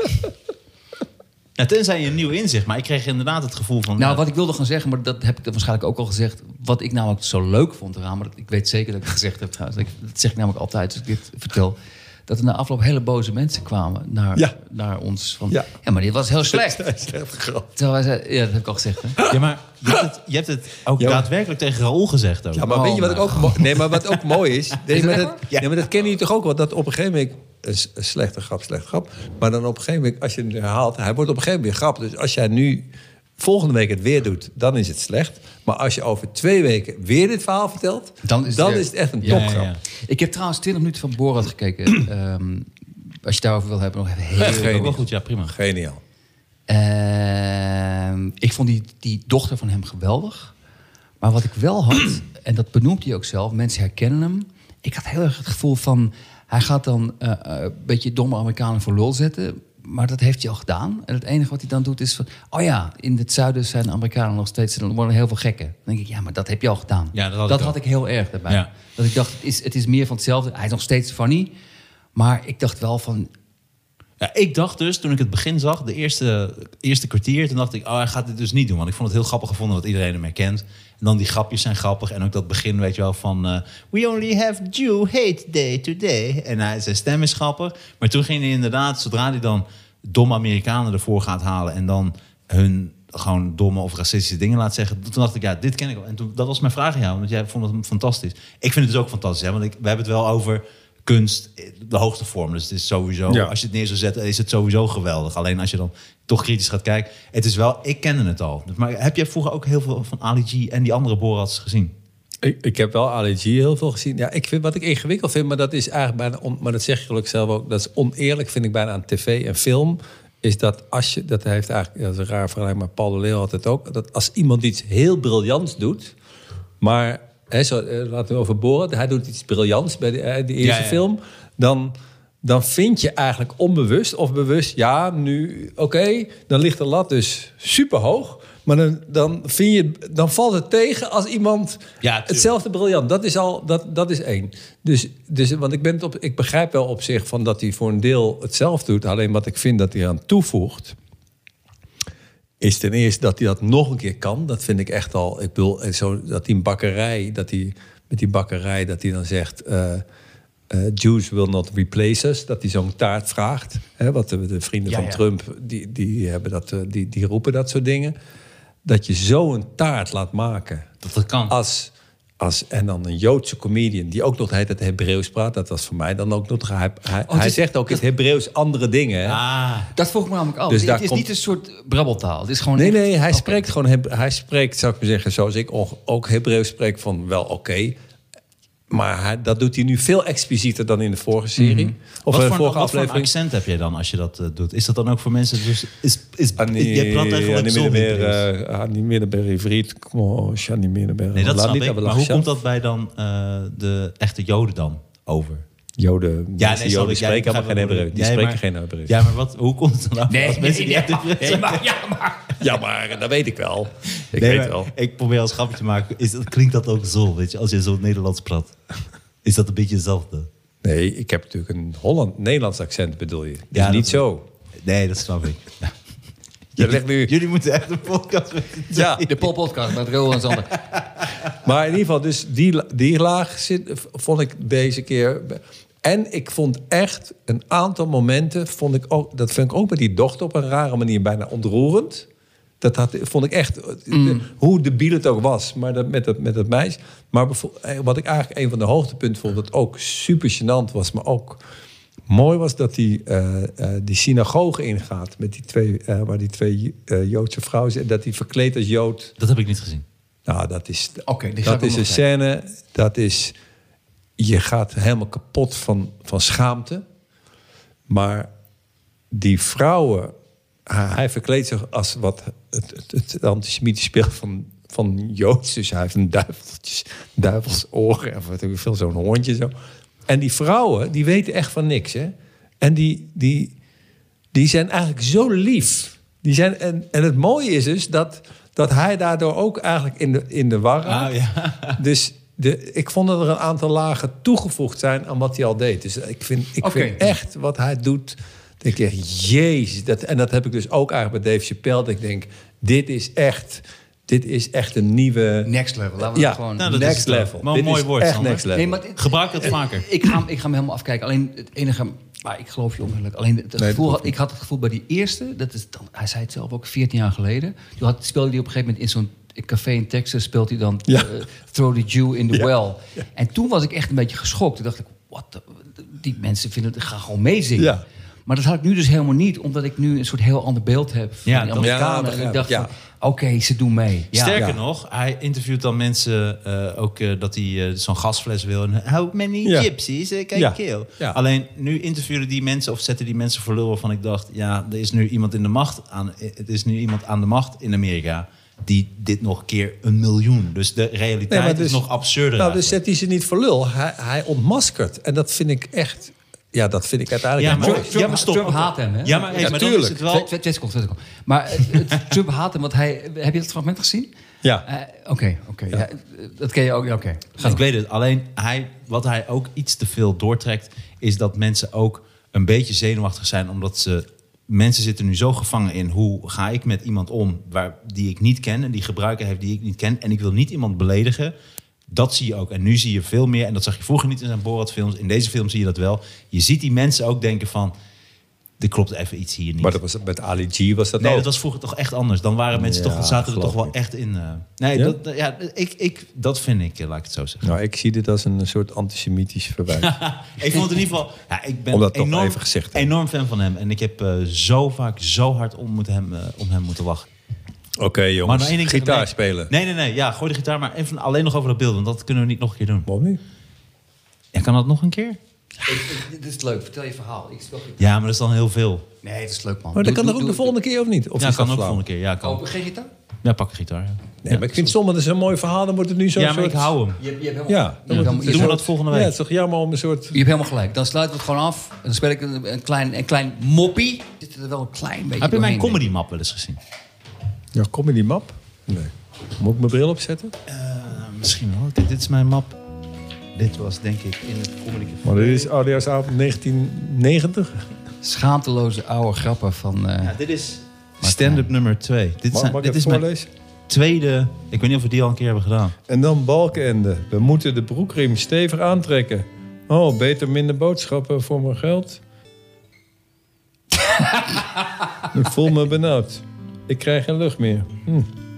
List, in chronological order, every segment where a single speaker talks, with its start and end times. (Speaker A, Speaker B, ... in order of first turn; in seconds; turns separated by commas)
Speaker A: 1.6-4.2, Speaker B: 4.0-16.9, Speaker C: 16.4-17.7, Speaker B: 17.8-19.2, Speaker A: 19.2-22.9, Speaker C: 21.0-21.3, Speaker C: 22.5-39.7, Speaker B: 22.7-23.6, Speaker B: 24.9-25.4, Speaker A: 25.5-25.8, Speaker B: 38.2-39.5, Speaker A: 39.2-39.8, Speaker B: 40.0-42.7, Speaker B: 43.2-44.9, Speaker A: 44.4-45.5, Speaker C: 44.4-46.0, Speaker B: 46.7-50.5, Speaker B: 51.2-71.5, Speaker A: 67.1-67.8, Speaker B: 72.2-73.3, Speaker A: 74.2-111.9, Speaker C: 103.3-103.5, Speaker C: 112.4-126.1, Speaker C: 126.8-151.0, Speaker A: 130.6-131.1, Speaker A: 142.0-142.5, Speaker C: 152.6-160.0, Speaker C: 160.7-168.2, Speaker B: 164.9-165.2, Speaker C: 168.8-170.9, Speaker A: 171.0-171.6, Speaker C: 171.5-179.4, Speaker B: 177.3-178.0, Speaker A: 179.2-179.9, Speaker B: 179.9-183.7, Speaker C: 180.7-181.3, Speaker C: 182.8-188.0, Speaker C: 188.9-193.3, Speaker B: 191.6-191.9, Speaker A: 192.3-198.4, Speaker C: 196.6-202.5, Speaker A: 201.3-205.6, Speaker C: 206.0-209.3, Speaker A: 206.6-212.0, Speaker B: 210.3-212.6, Speaker C: 212.6-214.9, Speaker A: 214.3-218.8, Speaker A: 219.4-220.5, Speaker C: 220.8-224.4, Speaker A: 223.7-224.3, Speaker A: 224.8-225.9, Speaker C: 226.8-227.3, Speaker A: 226.8-229.4, Speaker C: 228.9-229.3, Speaker B: 229.2-230.8, Speaker C: 231.5-242.3, Speaker C: 242.8-251.6, Speaker B: 244.1-244.4, Speaker C: 252.3-259.3, Speaker A: 259.4-260.1, Speaker C: 260.5-263.6, Speaker B: 261.3-262.2, Speaker C: 264.4-267.1, Speaker C: 268.1-268.5, Speaker C: 269.3-270.3, Speaker C: 270.9-279.7, Speaker C: 280.3-283.7, Speaker C: 284.5-291.4, Speaker A: 291.1-292.0, Speaker C: 292.0-305.7, Speaker B: 296.8-297.3, Speaker B: 305.6-307.2, Speaker C: 306.2-309.0, Speaker A: 306.8-310.1, Speaker B: 308.7-334.6, Speaker C: 313.8-314.3, Speaker C: 321.1-321.3, Speaker C: 322.5-323.2, Speaker C: 327.8-328.0, Speaker A: 331.5-332.0, Speaker C: 331.8-332.9, Speaker A: 334.3-352.9, Speaker C: 339.6-339.9, Speaker C: 340.6-341.4, Speaker C: 351.5-352.0, Speaker C: 352.6-358.3, Speaker A: 357.6-360.5, Speaker B: 357.8-364.3, Speaker C: 359.6-360.2, Speaker B: 364.9-367.8, Speaker A: 367.6-381.5, Speaker A: 382.1-387.9, Speaker A: 388.8-390.0, Speaker C: 389.8-391.5, Speaker A: 391.2-397.7, Speaker C: 392.7-393.9, Speaker C: 397.6-400.1, Speaker A: 400.0-407.3, Speaker C: 401.9-403.1, Speaker C: 408.0-409.7, Speaker A: 408.4-413.1, Speaker C: 413.1-413.4, Speaker A: 414.5-415.4, Speaker B: 415.9-418.0, Speaker A: 418.0-419.1, Speaker B: 419.2-420.7, Speaker C: 419.9-422.0, Speaker A: 421.4-422.6, Speaker B: 422.4-423.1, Speaker A: 423.4-424.6, Speaker C: 424.4-426.9, Speaker A: 426.4-427.2, Speaker B: 427.2-428.8, Speaker C: 427.7-430.4, Speaker A: 428.1-429.4, Speaker B: 430.3-436.0, Speaker A: 435.4-436.8, Speaker C: 437.7-440.6, Speaker A: 440.7-442.8, Speaker A: 443.6-445.7, Speaker C: 445.2-447.8, Speaker B: 448.2-450.4, Speaker A: 450.2-453.3, Speaker B: 451.2-451.7, Speaker C: 452.5-453.5, Speaker A: 453.9-456.0, Speaker C: 456.1-462.2, Speaker B: 464.1-464.7, Speaker C: 465.3-468.3